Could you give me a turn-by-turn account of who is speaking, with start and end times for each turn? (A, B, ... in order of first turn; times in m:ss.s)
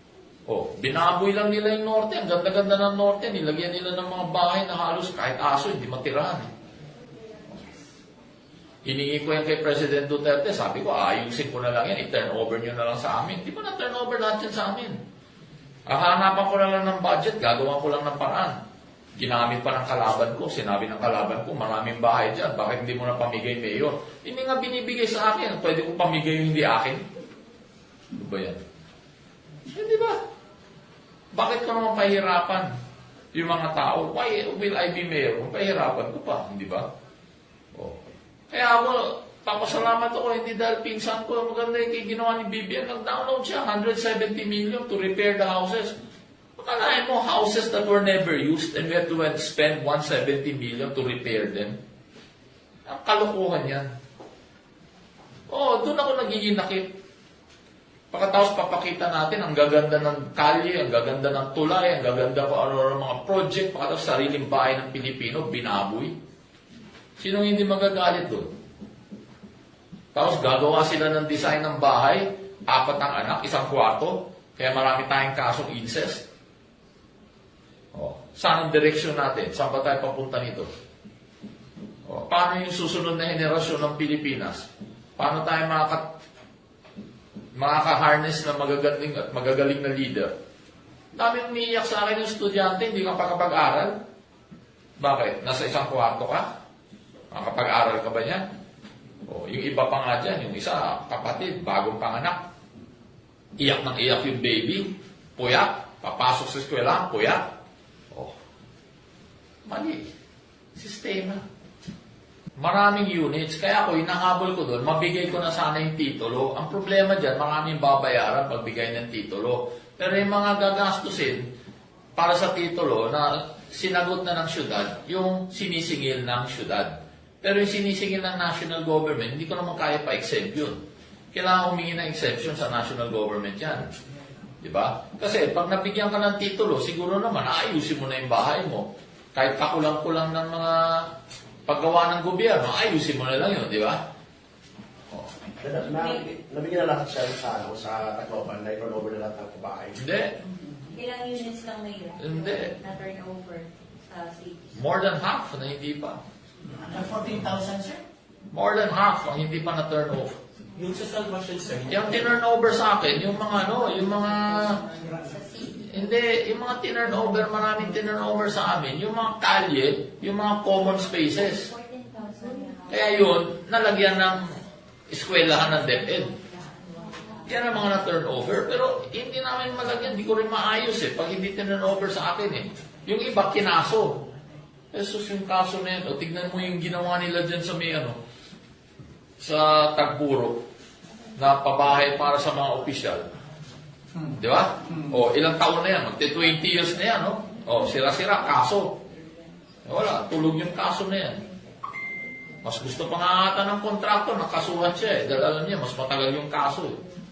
0:00.5-0:06.5 A
0:08.8-0:15.0 A
0:15.9-0:18.5 A
0:19.2-0:27.0 A
0:28.1-0:28.6 A
0:29.7-0:30.2 A
0:31.3-0:32.7 A
0:33.3-0:36.8 A
0:38.5-0:45.9 A
0:46.6-0:51.7 A
0:52.8-0:53.8 A
0:55.5-0:56.9 A
0:58.1-1:06.1 A
1:07.2-1:08.5 A
1:10.1-1:16.2 A
1:17.9-1:20.7 A
1:22.0-1:26.0 A
1:27.5-1:30.3 A
1:31.2-1:33.9 A
1:35.0-1:36.5 A
1:37.3-1:38.4 A
1:39.3-1:42.4 A
1:43.6-1:47.4 A
1:49.6-1:50.1 A
1:50.7-1:51.4 A
1:52.6-2:01.4 A
2:02.2-2:10.8 A
2:11.3-2:13.9 A
2:14.6-2:21.1 A
2:21.7-2:24.0 A
2:25.6-2:30.0 B
2:29.9-2:30.3 A
2:30.9-2:34.8 C
2:32.2-2:32.7 A
2:34.7-2:36.2 A
2:36.8-2:38.0 D
2:38.5-2:40.4 A
2:40.7-2:42.3 D
2:41.8-2:44.8 A
2:45.2-2:45.8 C
2:45.8-2:51.7 A
2:51.6-2:53.2 C
2:52.9-2:54.5 A
2:55.1-2:56.3 A
2:56.8-2:57.4 C
2:57.4-3:04.2 A
3:04.9-3:08.2 A
3:09.4-3:10.6 A
3:11.4-3:13.2 A
3:14.3-3:19.0 A
3:19.8-3:21.4 A
3:22.6-3:27.0 A